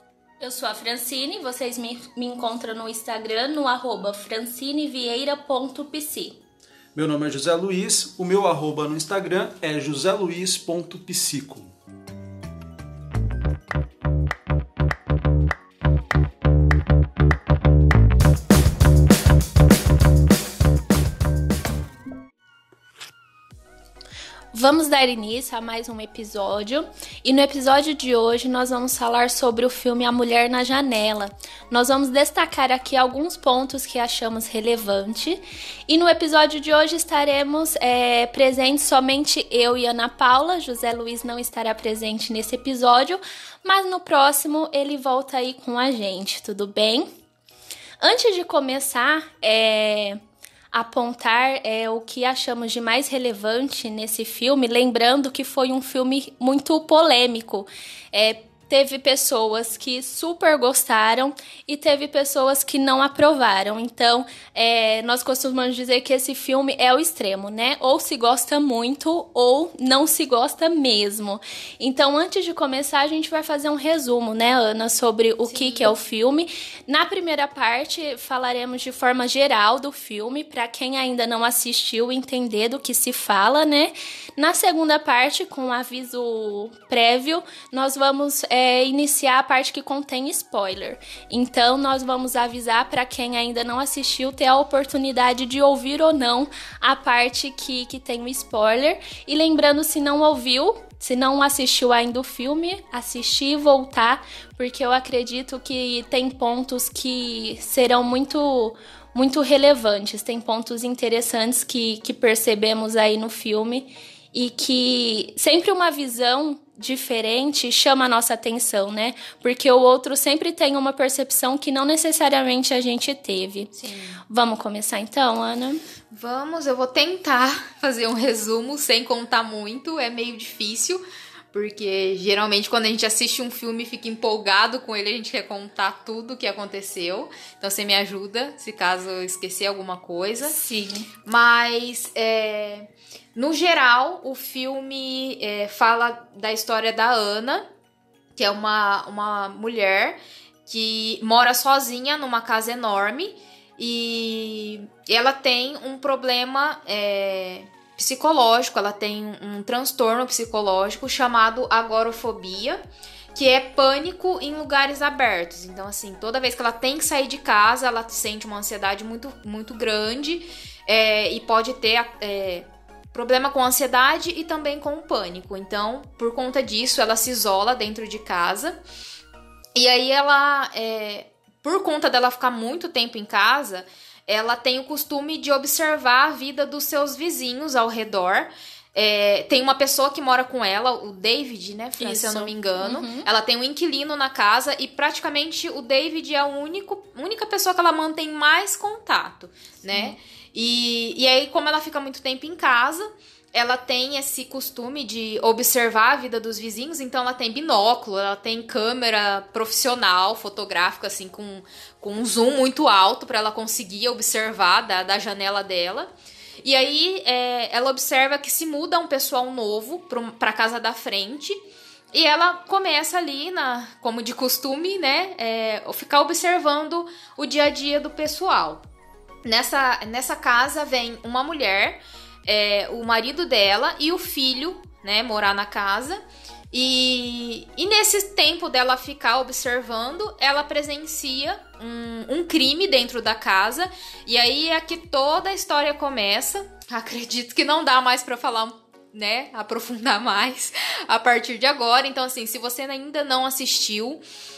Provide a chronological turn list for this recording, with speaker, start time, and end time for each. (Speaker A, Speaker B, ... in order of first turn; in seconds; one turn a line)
Speaker A: 0.4-6.4
Speaker B: 6.9-11.7
Speaker A: 24.5-47.1
Speaker A: 48.0-50.2
Speaker A: 50.7-123.7
Speaker C: 75.5-75.9
Speaker C: 123.8-124.2
Speaker A: 124.3-125.8
Speaker C: 126.1-140.6
Speaker A: 140.4-141.1
Speaker C: 141.2-147.7
Speaker C: 148.3-162.8
Speaker C: 163.3-178.8
Speaker C: 179.8-216.1
Speaker A: 192.0-193.3
Speaker A: 199.9-200.2
Speaker C: 216.6-221.6
Speaker C: 222.1-228.8
Speaker C: 229.4-236.2
Speaker C: 236.7-254.2